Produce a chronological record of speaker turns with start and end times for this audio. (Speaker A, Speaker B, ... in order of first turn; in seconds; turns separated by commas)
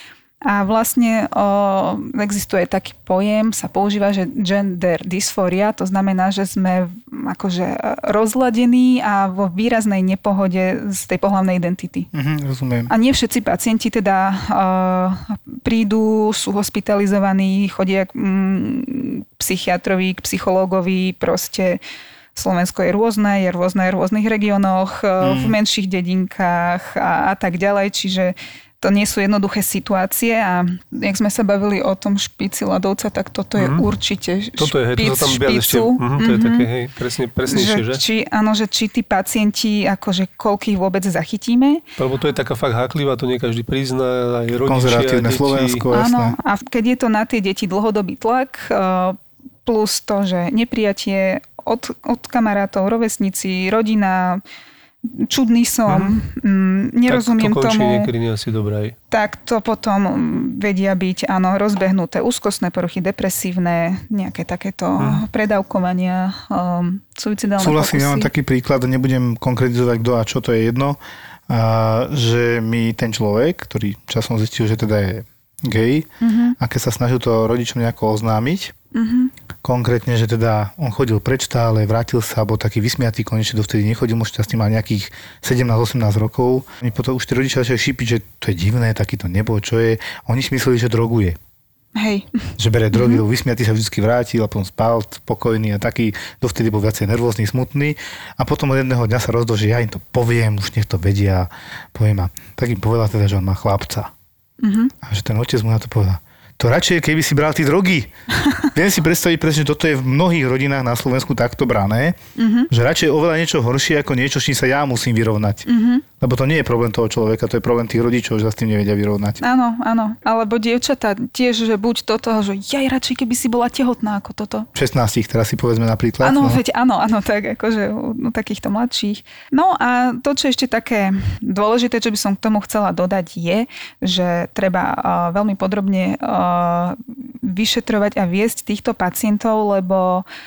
Speaker A: 0.4-12.1, Speaker B: 12.1-12.9, Speaker A: 12.9-21.8, Speaker A: 22.3-36.7, Speaker B: 25.2-25.5, Speaker C: 33.6-33.9, Speaker C: 34.6-38.0, Speaker A: 37.5-41.8, Speaker C: 42.0-45.8, Speaker B: 44.6-46.4, Speaker A: 45.9-54.4, Speaker A: 55.0-58.1, Speaker C: 55.9-56.2, Speaker C: 57.1-58.9, Speaker A: 59.1-68.3, Speaker B: 67.6-78.7, Speaker A: 76.2-76.5, Speaker A: 78.9-79.3, Speaker B: 79.6-91.4, Speaker A: 92.0-92.3, Speaker B: 92.6-104.1, Speaker A: 92.9-93.2, Speaker A: 104.6-104.9, Speaker B: 105.0-108.1, Speaker B: 108.7-112.2, Speaker A: 112.3-112.7, Speaker B: 112.7-115.7, Speaker A: 115.7-116.0, Speaker B: 116.2-119.4, Speaker A: 119.4-124.7, Speaker B: 124.7-126.6, Speaker A: 126.2-140.2